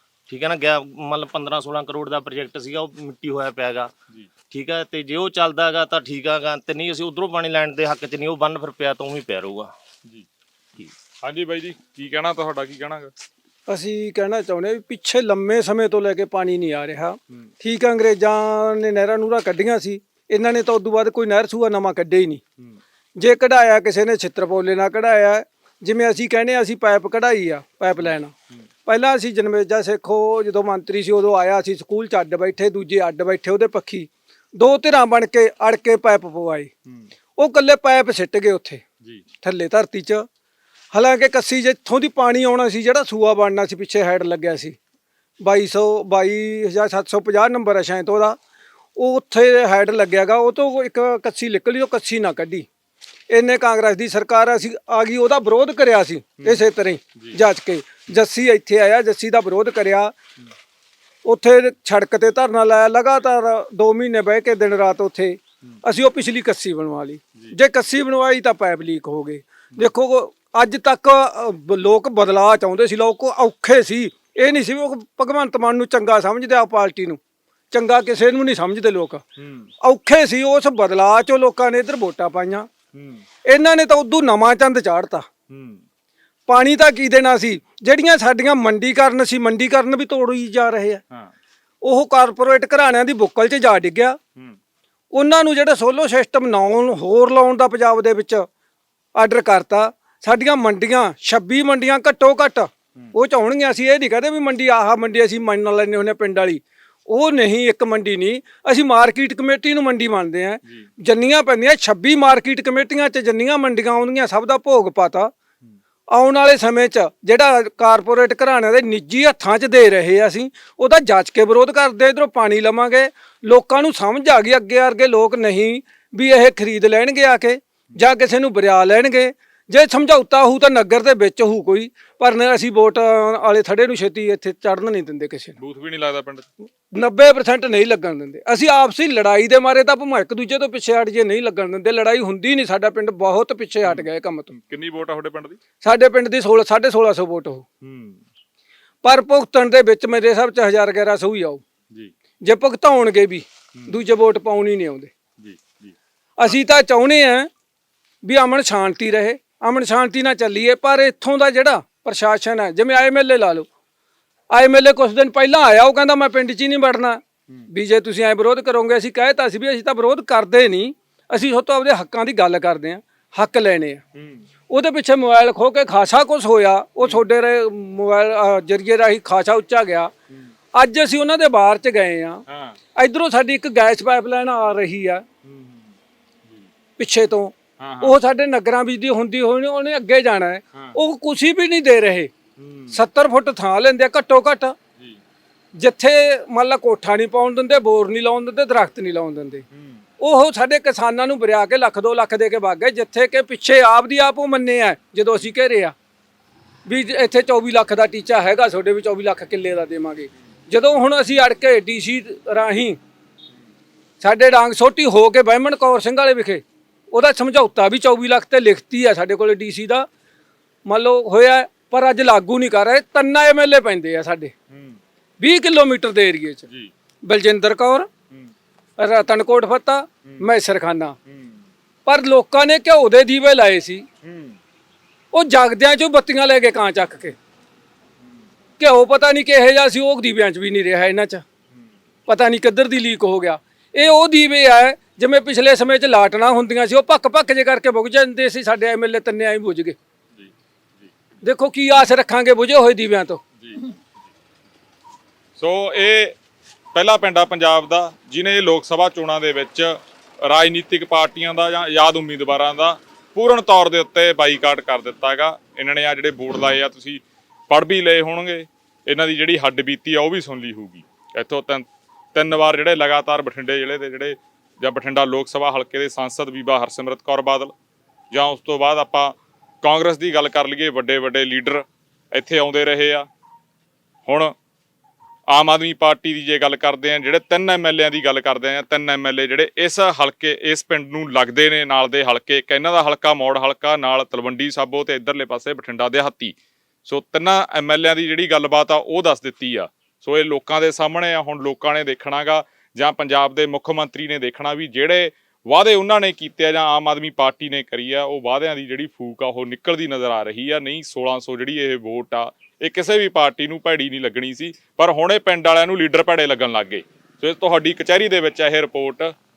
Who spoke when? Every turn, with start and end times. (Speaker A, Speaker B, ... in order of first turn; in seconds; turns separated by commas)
Speaker A: 0.3-3.9, Speaker A: 4.5-9.7, Speaker B: 11.2-13.1, Speaker C: 13.7-22.4, Speaker C: 23.2-28.3, Speaker B: 28.0-28.7, Speaker C: 28.9-36.7, Speaker C: 37.4-38.8, Speaker C: 39.4-40.3, Speaker C: 40.9-44.8, Speaker C: 45.4-48.4, Speaker C: 49.0-52.7, Speaker C: 53.3-60.1, Speaker C: 61.2-77.2, Speaker C: 77.7-79.2, Speaker B: 79.4-79.7, Speaker C: 79.8-82.7, Speaker B: 82.9-83.2, Speaker C: 83.5-85.3, Speaker B: 85.5-85.8, Speaker C: 86.5-91.0, Speaker C: 91.8-94.2, Speaker C: 95.1-98.5, Speaker C: 99.2-115.3, Speaker C: 116.1-135.6, Speaker B: 135.6-136.5, Speaker C: 136.9-144.5, Speaker B: 143.8-145.6, Speaker C: 145.8-147.7, Speaker B: 147.8-148.2, Speaker C: 149.0-151.6, Speaker C: 152.4-155.1, Speaker B: 155.4-155.9, Speaker C: 156.4-157.5, Speaker C: 158.2-163.7, Speaker C: 164.5-174.0, Speaker B: 174.2-174.5, Speaker C: 174.7-180.1, Speaker C: 180.8-182.4, Speaker B: 182.5-182.8, Speaker C: 183.0-185.2, Speaker B: 185.4-185.9, Speaker C: 187.0-192.3, Speaker B: 187.8-188.2, Speaker B: 192.6-193.0, Speaker C: 192.9-194.8, Speaker C: 195.8-199.6, Speaker B: 199.7-200.0, Speaker C: 200.2-205.9, Speaker C: 206.9-213.0, Speaker C: 214.2-220.1, Speaker C: 220.9-224.5, Speaker B: 224.7-225.0, Speaker C: 225.4-226.7, Speaker C: 227.2-228.1, Speaker C: 229.0-231.2, Speaker B: 231.3-231.7, Speaker C: 232.1-234.1, Speaker B: 234.2-234.6, Speaker C: 235.3-237.4, Speaker C: 238.8-241.4, Speaker C: 242.3-250.0, Speaker B: 250.3-251.1, Speaker C: 251.4-253.4, Speaker B: 255.6-256.4, Speaker B: 256.9-277.7, Speaker B: 278.3-283.3, Speaker B: 284.3-284.5, Speaker B: 285.5-319.3